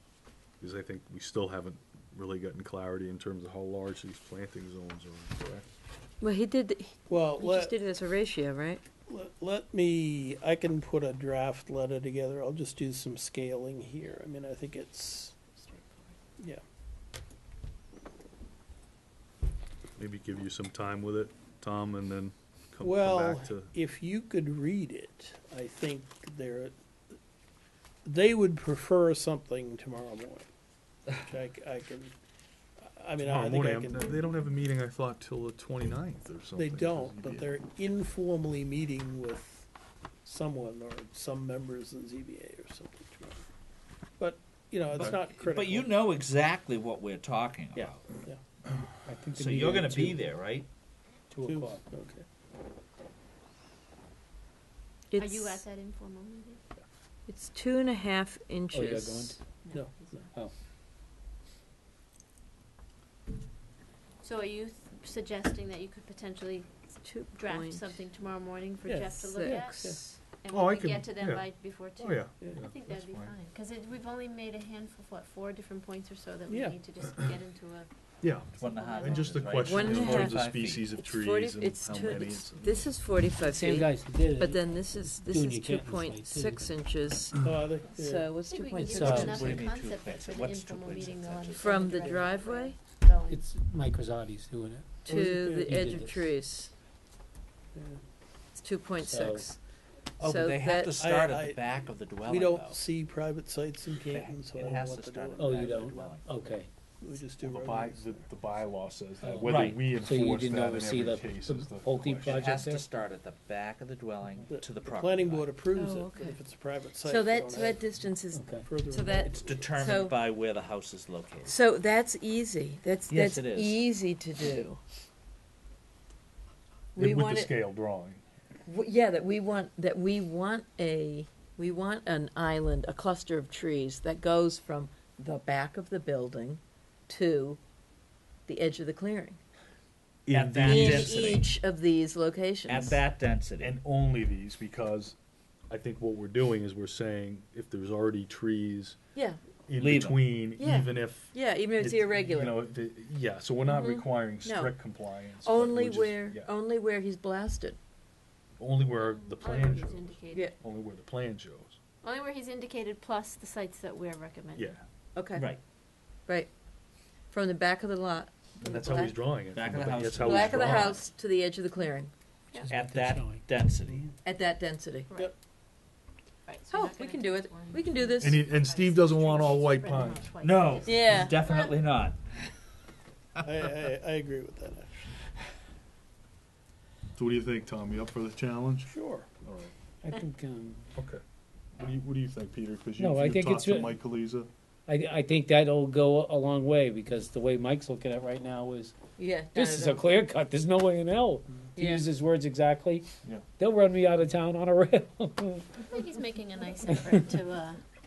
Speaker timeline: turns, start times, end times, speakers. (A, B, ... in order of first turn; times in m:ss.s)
0:00.6-0:05.6 A
0:06.2-0:08.8 B
0:07.1-0:07.8 C
0:09.1-0:15.4 C
0:15.6-0:16.1 D
0:20.0-0:23.7 A
0:22.8-0:26.7 C
0:28.0-0:30.5 C
0:31.1-0:32.1 C
0:32.8-0:34.2 C
0:33.2-0:37.5 A
0:36.5-0:39.7 C
0:40.2-0:43.4 C
0:44.2-0:46.0 C
0:45.0-0:45.2 A
0:45.4-0:48.1 E
0:47.7-0:48.4 C
0:49.0-0:50.3 F
0:49.3-0:50.7 E
0:51.3-0:51.8 F
0:51.4-0:52.2 C
0:55.1-0:55.6 B
0:55.2-0:56.6 D
0:57.3-0:59.4 B
0:58.7-0:59.4 F
0:59.6-1:00.2 D
0:59.7-1:00.2 C
1:04.2-1:06.7 D
1:07.0-1:08.0 B
1:07.3-1:19.8 D
1:08.8-1:10.1 C
1:09.1-1:10.2 B
1:10.5-1:13.3 A
1:12.4-1:12.6 C
1:16.5-1:16.8 C
1:18.2-1:22.9 A
1:18.6-1:20.9 E
1:19.6-1:27.4 B
1:23.4-1:26.7 F
1:27.4-1:28.3 C
1:27.9-1:29.6 B
1:28.4-1:33.4 D
1:28.8-1:29.6 F
1:29.2-1:32.3 E
1:31.6-1:32.8 B
1:33.3-1:36.2 F
1:35.0-1:36.0 C
1:35.0-1:36.7 B
1:37.7-1:38.0 C
1:38.5-1:39.6 B
1:39.0-1:39.5 F
1:40.2-1:42.8 E
1:40.2-1:40.9 B
1:40.9-1:46.1 C
1:43.9-1:46.5 E
1:45.4-1:46.7 F
1:47.0-1:48.3 C
1:47.4-1:52.5 A
1:49.2-1:52.8 F
1:49.4-1:49.8 E
1:52.3-1:55.6 E
1:54.5-1:57.9 C
1:55.7-1:56.4 D
1:57.0-2:00.2 B
1:58.3-1:58.6 F
1:58.5-1:59.7 C
1:59.1-2:01.6 E
2:01.4-2:04.8 B
2:03.1-2:03.9 E
2:07.0-2:07.5 B
2:07.0-2:08.2 A
2:08.6-2:17.6 B
2:18.5-2:19.4 B
2:20.2-2:21.4 A
2:20.3-2:21.5 E
2:20.6-2:23.0 B
2:22.6-2:23.8 E
2:23.6-2:25.2 A
2:25.7-2:29.0 A
2:29.1-2:29.4 B
2:29.7-2:36.5 A
2:29.8-2:30.4 E
2:30.6-2:32.6 B
2:33.6-2:34.8 B
2:35.4-2:37.8 B
2:38.6-2:41.8 A
2:38.8-2:40.5 D
2:42.0-2:44.8 D
2:44.5-2:44.8 A
2:45.1-2:45.5 B
2:45.3-2:45.6 E
2:46.2-2:46.5 B
2:47.3-2:49.4 B
2:48.6-2:51.0 A
2:49.5-2:51.0 E
2:50.2-2:52.1 B
2:52.6-2:54.1 F
2:52.6-2:54.1 E
2:54.2-2:55.1 B
2:55.1-2:55.3 D
2:56.4-3:01.7 D
2:56.7-2:58.4 B
2:58.2-3:00.2 A
3:00.4-3:02.2 E
3:00.8-3:01.7 B
3:03.4-3:05.1 C
3:07.2-3:08.9 A
3:08.8-3:09.3 C
3:09.4-3:09.7 A
3:10.0-3:10.9 F
3:10.9-3:11.2 A
3:11.8-3:14.5 A
3:13.0-3:14.0 F
3:14.9-3:18.9 F
3:19.2-3:20.0 B
3:19.5-3:23.1 F
3:21.8-3:22.0 B
3:23.6-3:25.6 F
3:25.8-3:27.8 D